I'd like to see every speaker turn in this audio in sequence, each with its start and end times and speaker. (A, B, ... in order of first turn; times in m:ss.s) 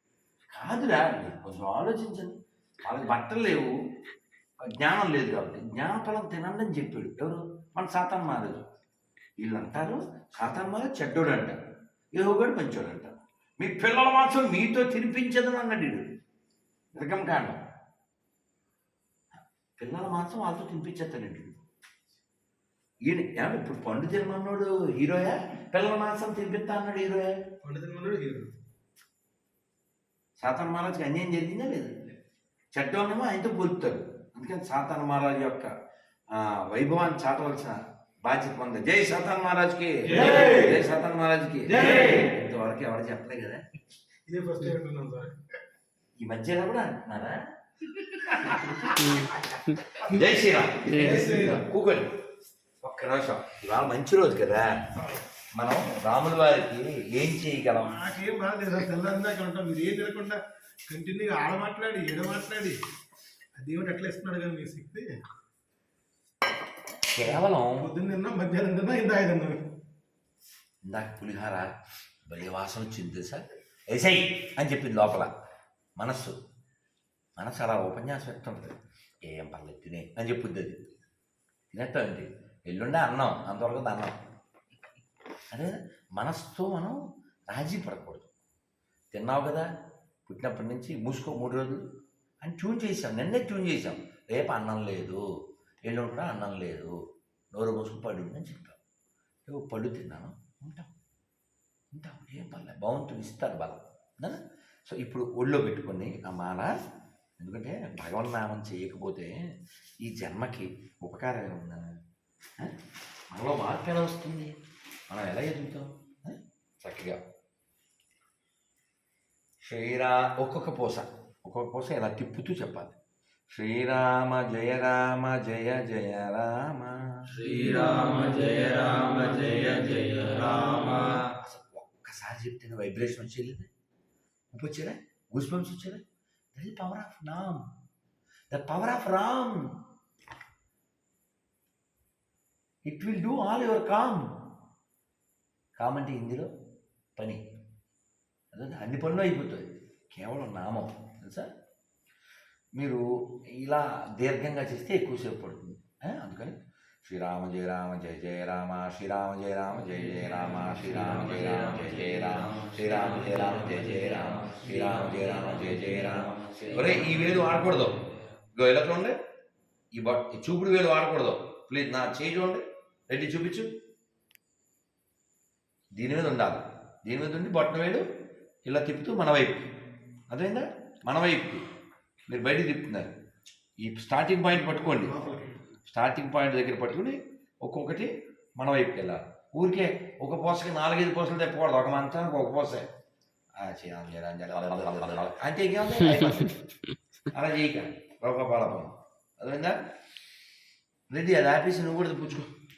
0:00.5-0:03.7 A
0:04.6-0:08.6 A
0:09.4-0:11.6 A
0:12.1-0:16.0 A
0:16.9-0:17.6 A
0:19.8-0:21.6 A
0:23.0-0:27.4 A
0:27.6-0:28.5 B
0:30.4-0:31.9 A
0:32.8-0:35.7 A
0:36.3-0:43.6 A
0:40.1-0:40.8 B
0:41.7-0:42.3 B
0:44.3-0:45.4 B
0:46.2-0:47.4 A
0:48.0-0:52.1 A
0:48.2-0:48.8 B
0:48.9-0:49.8 C
0:50.8-0:51.2 C
0:50.9-0:51.6 B
0:52.8-0:54.9 A
0:55.0-0:55.2 B
0:55.5-0:58.0 A
0:57.8-1:02.8 B
1:03.6-1:05.1 B
1:07.1-1:07.9 A
1:07.2-1:09.6 B
1:10.9-1:11.7 A
1:12.2-1:15.3 A
1:16.0-1:16.4 A
1:17.4-1:20.9 A
1:21.7-1:24.1 A
1:25.5-1:28.3 A
1:29.1-1:29.7 A
1:30.2-1:31.8 A
1:32.4-1:35.2 A
1:35.8-1:36.9 A
1:37.5-1:38.8 A
1:39.5-1:40.9 A
1:41.9-1:46.7 A
1:47.4-1:49.4 A
1:50.0-1:51.9 A
1:53.3-1:54.5 A
1:55.1-1:57.2 A
1:59.6-2:02.9 A
2:03.5-2:07.8 A
2:07.4-2:11.0 C
2:08.6-2:13.7 A
2:14.5-2:16.0 A
2:16.5-2:17.6 A
2:18.5-2:19.7 A
2:22.9-2:24.3 A
2:25.8-2:26.5 A
2:27.2-2:27.4 A
2:28.5-2:31.5 A
2:32.8-2:33.0 A
2:33.6-2:49.2 A
2:40.2-2:47.8 C
2:49.9-2:53.7 A
2:56.0-2:58.0 A
2:58.6-2:59.7 A
3:00.3-3:01.6 A
3:02.3-3:03.1 A
3:03.8-3:05.2 A
3:04.8-3:05.6 B
3:05.8-3:12.9 A
3:13.6-3:16.6 A
3:17.3-3:19.8 A
3:21.1-3:22.5 A